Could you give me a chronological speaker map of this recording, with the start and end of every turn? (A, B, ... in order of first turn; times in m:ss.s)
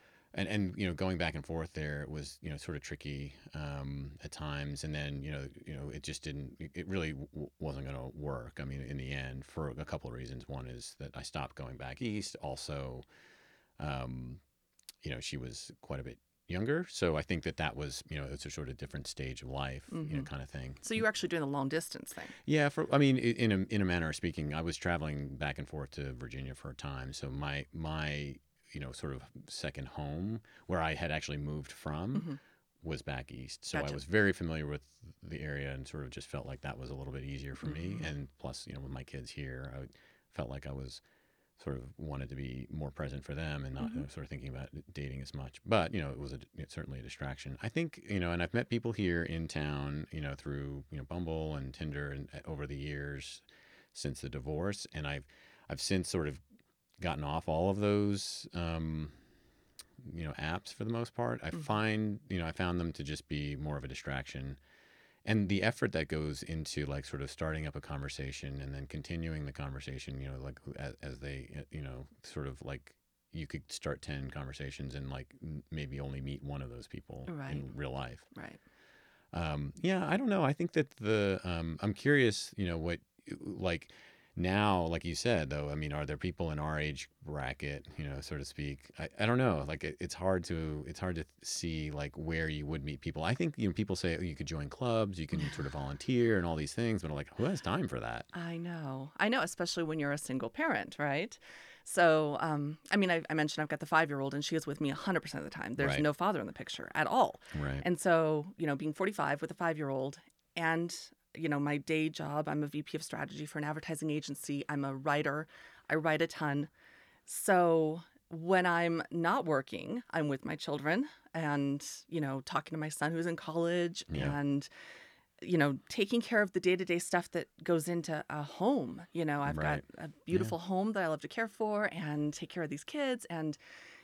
0:00.3-0:13.0 A
0:13.8-0:14.4 A
0:15.0-0:21.0 A
0:19.9-0:20.3 B
0:20.8-0:22.3 B
0:22.4-0:32.3 A
0:32.8-0:41.0 A
0:33.7-0:34.0 B
0:37.6-0:38.1 B
0:41.6-0:56.4 A
0:43.8-0:44.0 B
0:57.0-0:59.2 A
1:00.0-1:04.6 A
1:05.2-1:18.3 A
1:17.3-1:17.6 B
1:18.3-1:18.6 B
1:19.3-1:38.3 A
1:38.3-1:56.7 B
1:45.8-1:46.0 A
1:47.5-1:47.8 A
1:57.2-2:04.7 B
2:04.1-2:04.4 A
2:05.4-2:13.6 B
2:09.4-2:10.5 A